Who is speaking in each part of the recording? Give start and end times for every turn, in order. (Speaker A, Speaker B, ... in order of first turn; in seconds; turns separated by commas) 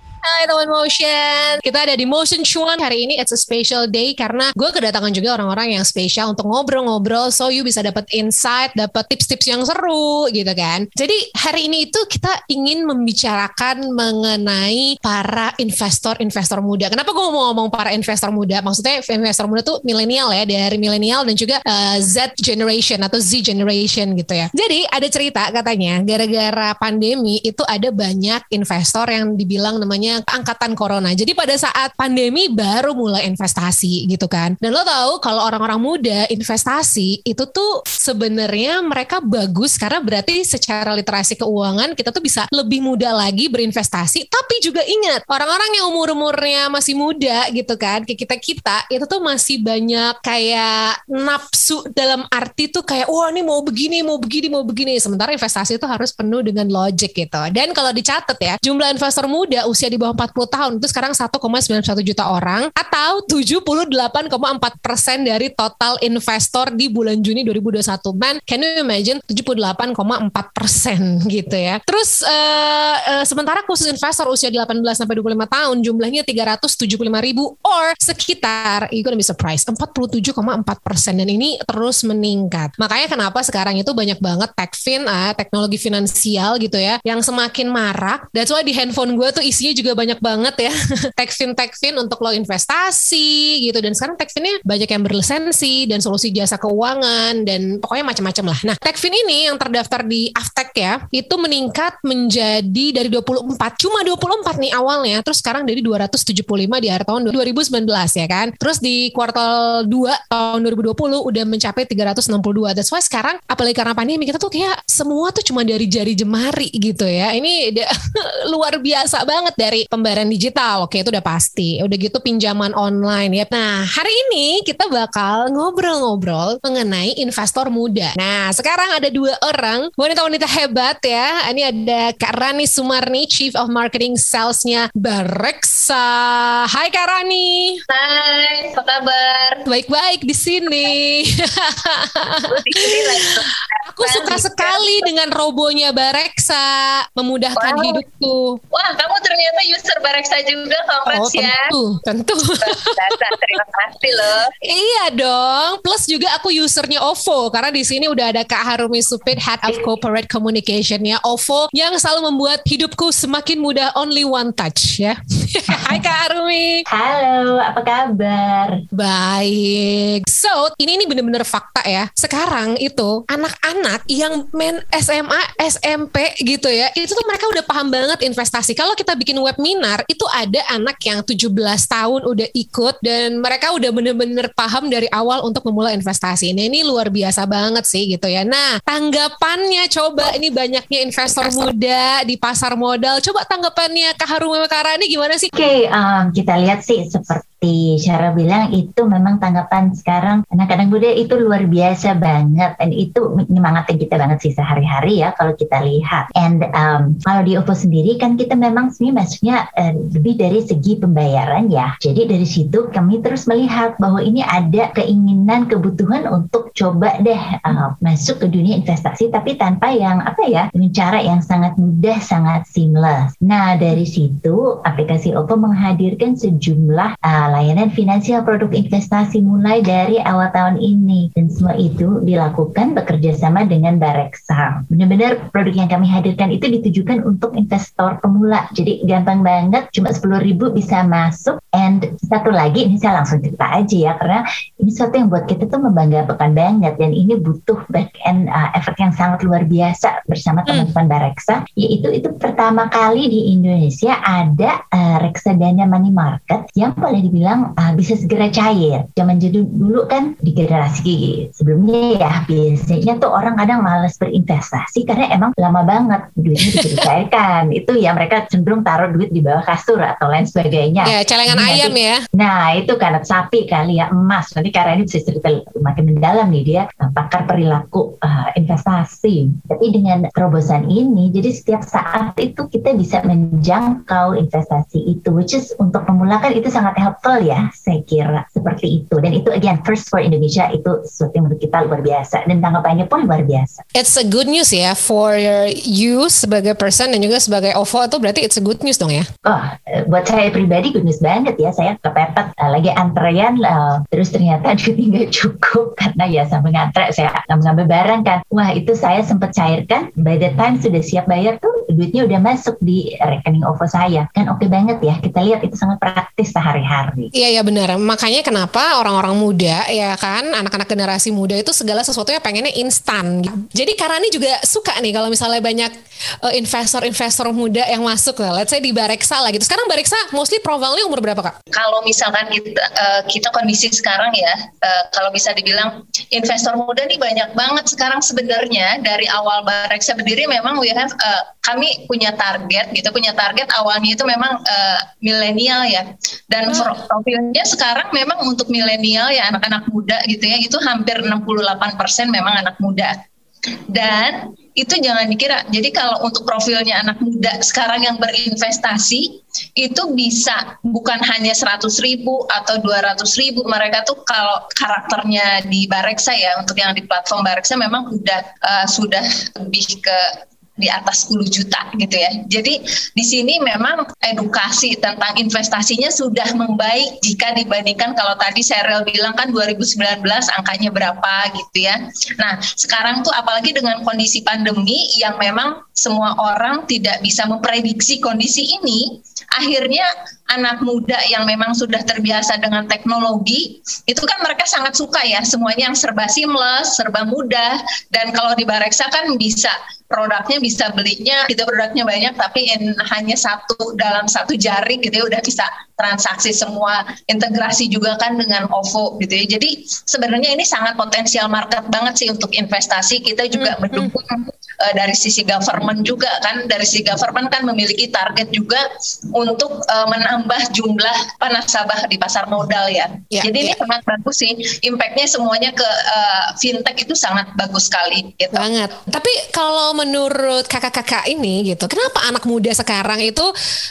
Speaker A: 0.2-137.8, Speaker B: 137.9-139.6, Speaker A: 139.7-148.6, Speaker B: 142.5-145.1, Speaker B: 147.6-148.0, Speaker B: 148.7-151.6, Speaker A: 151.1-153.4, Speaker B: 152.6-154.5, Speaker A: 154.6-166.8, Speaker C: 165.7-166.0, Speaker C: 166.9-168.8, Speaker A: 168.9-195.5, Speaker C: 195.5-293.8, Speaker A: 266.6-267.0, Speaker A: 271.0-272.2, Speaker A: 293.9-299.3, Speaker C: 299.4-317.3, Speaker A: 317.3-325.9, Speaker A: 326.4-331.6, Speaker B: 331.7-353.1, Speaker B: 353.9-370.3, Speaker B: 370.8-418.8, Speaker A: 413.5-414.1, Speaker B: 419.3-428.6, Speaker A: 423.3-423.8, Speaker A: 428.6-433.5